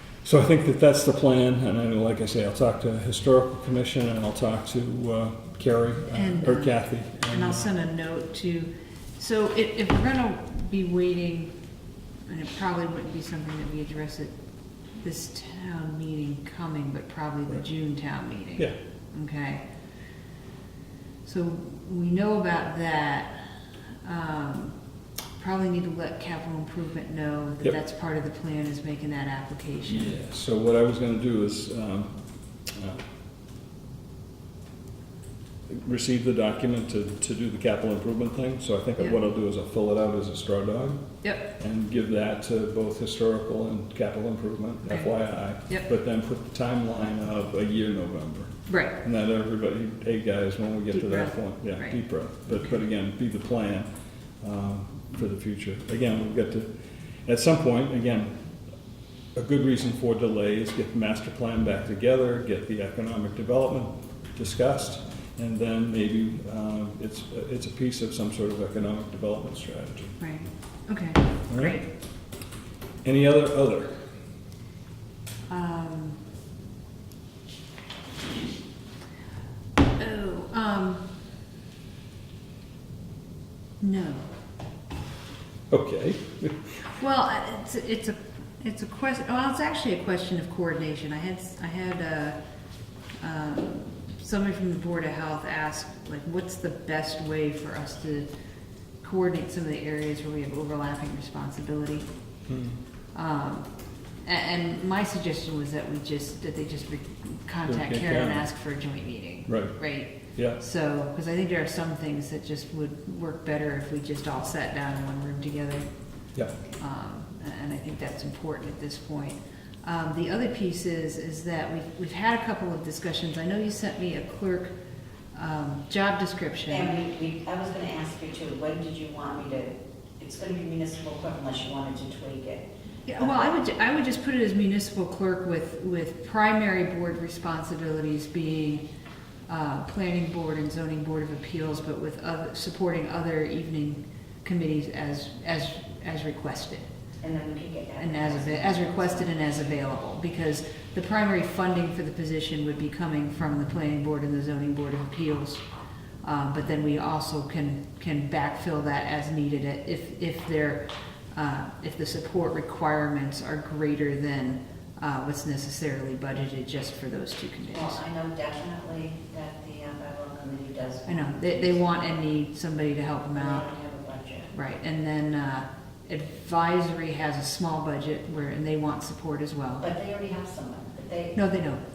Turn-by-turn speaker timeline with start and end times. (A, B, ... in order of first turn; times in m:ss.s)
0:00.2-0:07.7 A
0:06.1-0:11.5 B
0:12.3-0:14.3 B
0:15.0-0:19.6 B
0:21.2-0:23.4 B
0:24.0-0:24.8 B
0:25.4-0:30.1 B
0:29.9-0:33.0 A
0:35.7-0:53.9 A
0:48.7-0:49.0 B
0:50.9-0:52.0 B
0:54.4-0:56.7 A
0:57.2-0:58.4 A
0:59.3-1:10.2 A
1:10.2-1:11.9 B
1:11.5-1:11.8 A
1:13.0-1:14.0 A
1:15.5-1:16.2 B
1:20.0-1:21.0 B
1:23.8-1:24.3 B
1:25.7-1:26.7 A
1:27.0-1:32.4 B
1:33.2-1:38.3 B
1:39.0-1:42.1 B
1:42.5-1:42.8 A
1:43.1-1:43.7 B
1:44.2-1:55.8 B
1:47.6-1:48.4 A
1:49.5-1:49.8 A
1:56.8-2:04.7 B
2:05.3-2:06.9 B
2:06.7-2:12.6 C
2:13.0-2:18.8 B
2:13.2-2:13.5 C
2:19.5-2:26.9 B
2:27.2-2:29.4 C
2:28.0-2:35.6 B
2:36.2-2:48.0 B
2:47.7-2:52.0 C
2:51.1-2:53.7 B
2:53.4-2:54.5 C
2:54.5-2:59.9 B
2:59.8-3:01.4 C
3:01.3-3:01.8 B